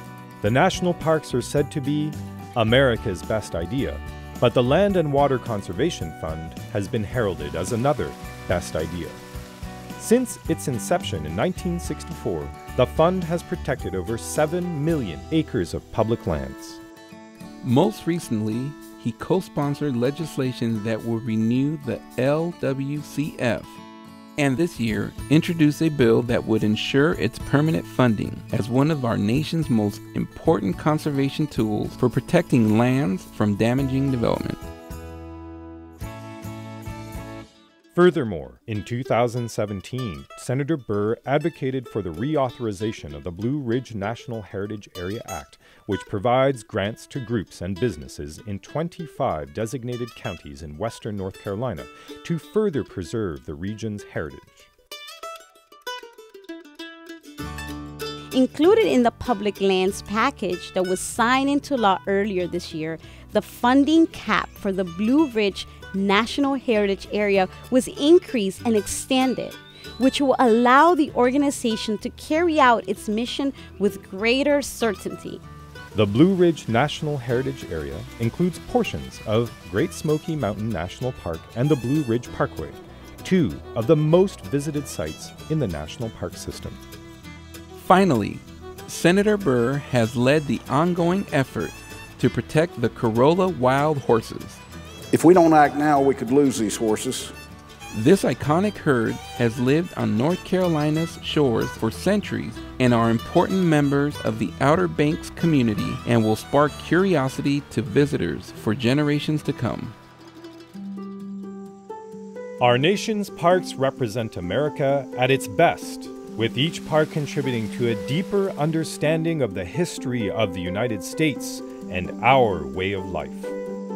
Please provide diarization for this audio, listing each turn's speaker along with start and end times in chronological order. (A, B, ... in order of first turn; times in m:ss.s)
0:00.4-0:09.2 A
0:10.0-0:16.8 A
0:17.6-0:23.8 B
0:24.4-0:34.7 B
0:37.9-0:54.7 A
0:58.3-1:15.4 C
1:15.9-1:26.8 A
1:27.8-1:34.6 B
1:35.1-1:37.3 D
1:37.9-1:50.0 B
1:52.6-2:03.6 A